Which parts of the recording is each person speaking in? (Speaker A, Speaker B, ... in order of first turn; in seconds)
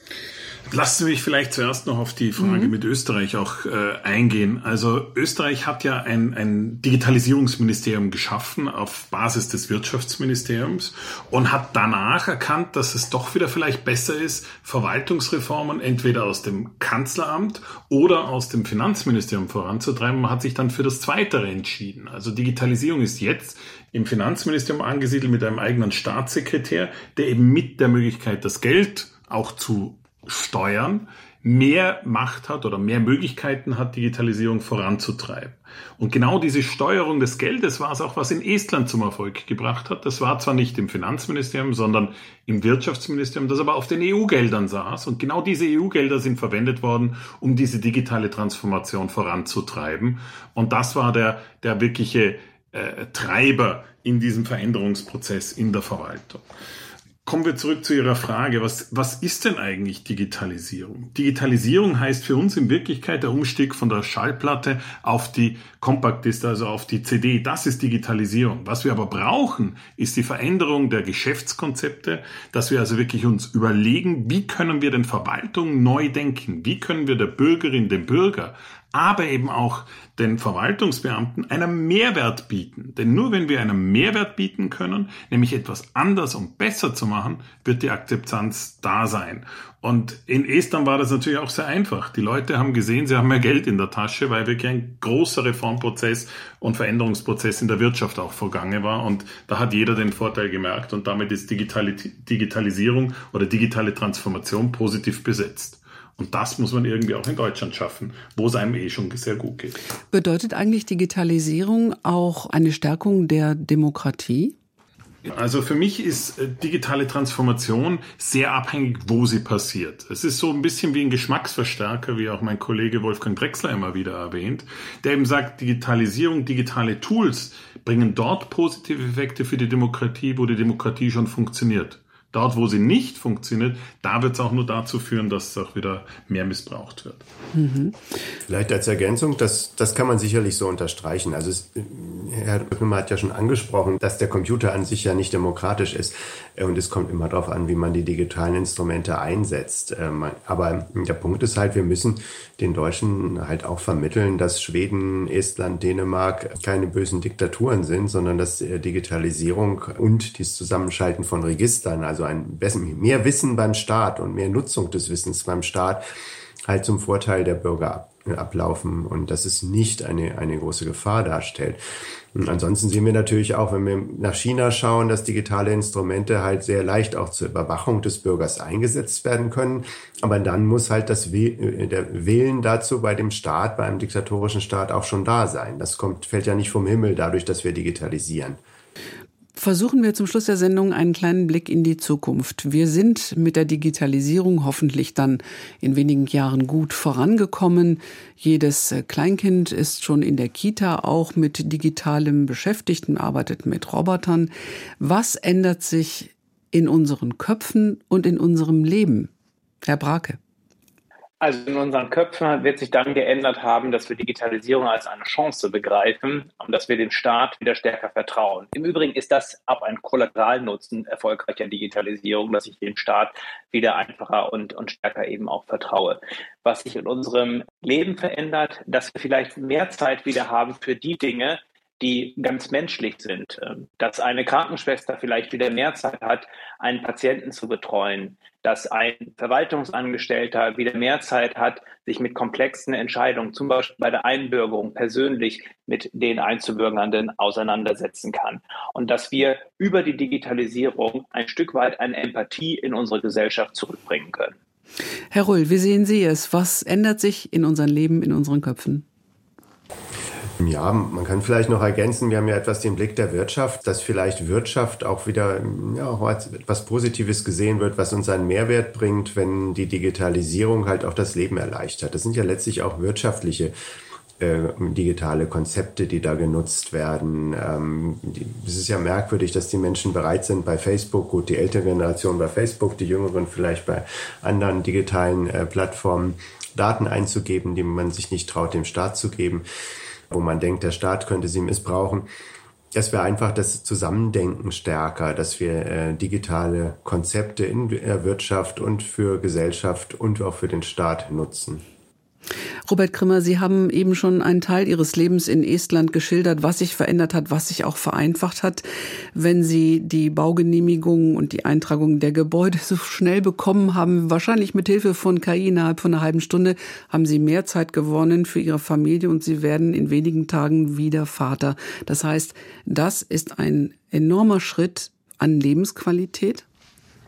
Speaker A: 0.7-56.5, 57.2-109.8, 115.2-137.2
Speaker B: 2.4-2.7, 110.1-114.5, 137.5-138.0, 189.6-209.3, 209.8-210.4, 255.3-259.1, 302.9-326.7
Speaker C: 138.5-166.0, 166.7-171.8, 172.3-188.6, 260.6-273.7, 274.4-289.6, 290.3-292.3, 292.9-301.8
Speaker D: 211.4-254.6